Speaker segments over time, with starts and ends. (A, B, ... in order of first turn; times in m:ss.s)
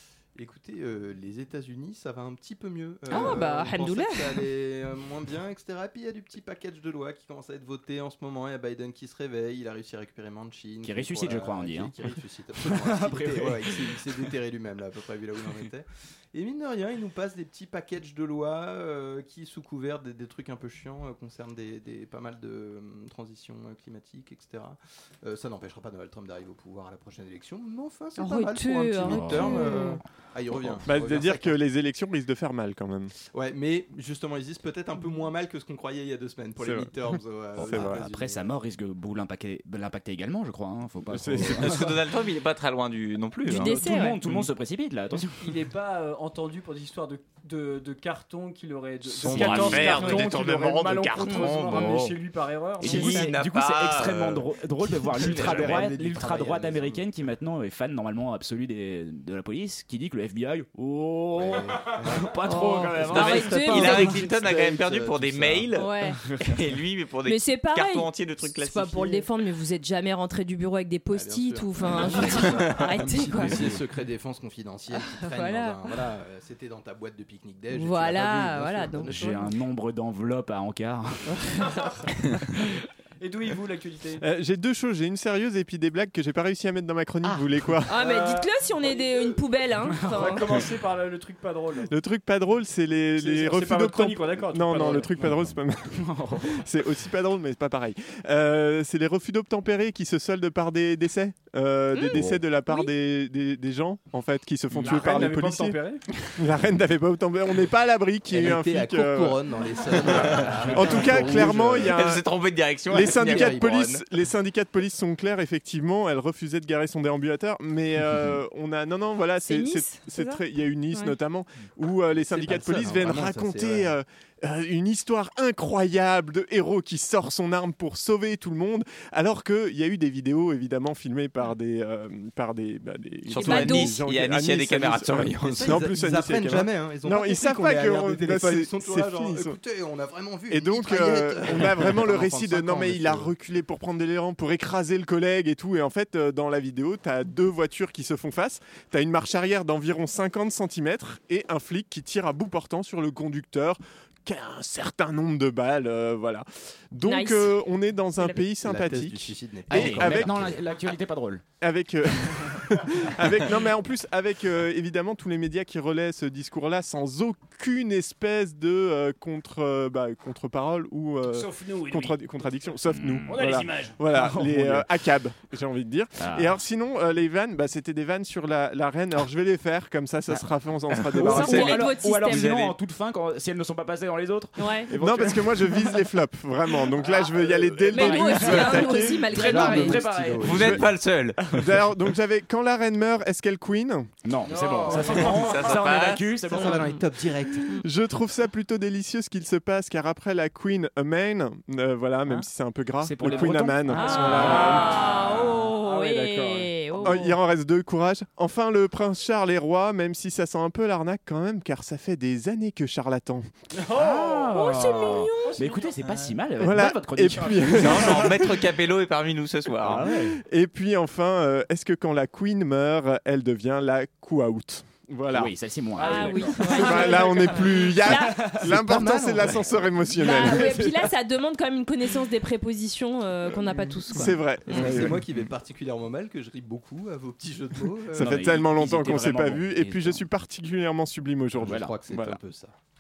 0:00.4-0:31.6 A
0:03.1-0:04.4 B
0:03.1-0:03.4 C
0:10.8-0:12.0 C
0:12.6-0:14.3 C
0:28.2-0:30.0 B
0:29.1-0:29.7 C
0:30.8-0:33.1 D
0:33.3-0:38.6 A
0:36.6-0:36.9 D
0:37.6-0:41.9 C
0:37.6-0:38.0 D
0:41.1-0:41.8 D
0:41.4-0:43.8 E
0:43.5-0:44.3 B
0:43.5-0:45.5 C
0:45.2-0:53.2 F
0:49.2-0:50.3 A
0:49.2-0:52.2 E
0:51.2-0:51.9 B
0:52.8-0:54.5 E
0:52.8-1:04.0 C
0:53.0-0:53.3 B
0:54.8-0:57.1 A
0:55.2-0:55.8 E
1:01.3-1:05.7 A
1:02.4-1:04.2 B
1:03.1-1:09.3 E
1:05.7-1:06.2 B
1:06.2-1:06.6 C
1:07.2-1:13.6 B
1:11.1-1:19.6 A
1:13.5-1:13.8 C
1:14.9-1:15.9 B
1:17.7-1:19.3 B
1:19.1-1:21.6 C
1:21.6-1:22.0 B
1:23.2-1:24.2 F
1:24.2-1:27.9 D
1:27.2-1:27.5 C
1:27.9-1:30.5 B
1:28.0-1:29.3 F
1:30.0-1:31.9 F
1:31.9-1:45.8 D
1:33.2-1:35.3 F
1:35.2-1:36.6 C
1:41.9-1:42.9 B
1:44.7-1:46.0 F
1:46.3-1:52.3 D
1:48.3-1:51.9 A
1:50.1-1:51.9 C
1:51.9-1:54.0 E
1:52.9-2:19.6 D
1:53.0-1:53.9 A
1:59.5-2:01.2 B
2:02.1-2:03.9 A
2:13.3-2:15.8 E
2:13.4-2:14.0 B
2:15.4-2:23.3 A
2:20.5-2:40.6 D
2:37.0-2:37.6 B
2:38.6-2:40.6 A
2:39.7-2:41.4 C
2:41.6-3:01.8 D
2:51.3-2:52.4 F
2:52.9-2:54.9 C
2:53.3-2:54.0 F
2:56.2-2:56.6 C
3:00.9-3:02.8 E
3:01.1-3:05.9 C
3:01.2-3:02.6 B
3:04.6-3:04.9 B
3:04.9-3:09.2 D
3:07.9-3:10.1 B
3:07.9-3:10.8 C
3:09.3-3:10.9 A
3:10.4-3:11.4 E
3:11.4-3:11.7 C
3:11.5-3:14.1 D
3:14.2-3:16.8 C
3:14.5-3:15.6 F
3:15.2-3:16.3 E
3:16.5-3:17.7 A
3:16.5-3:17.0 B
3:17.8-3:24.3 D
3:23.0-3:25.0 C
3:23.9-3:27.4 B
3:24.2-3:27.1 F
3:27.0-3:33.5 D
3:33.7-3:34.8 F
3:33.9-3:38.3 C
3:34.5-3:35.8 B
3:35.4-3:36.0 F
3:36.6-3:38.6 D
3:37.8-3:40.1 E
3:39.8-3:40.4 C
3:40.2-3:45.5 D
3:45.3-3:47.0 C
3:46.0-3:48.6 B
3:46.0-3:47.0 F
3:46.7-3:50.8 D
3:48.3-3:50.8 C
3:48.7-3:49.6 A
3:50.2-3:54.4 B
3:54.1-3:55.2 D
3:54.7-3:58.6 A
3:54.8-3:55.4 C
3:58.1-4:00.2 C
3:58.2-4:02.4 D
4:01.6-4:02.7 A
4:01.6-4:01.9 C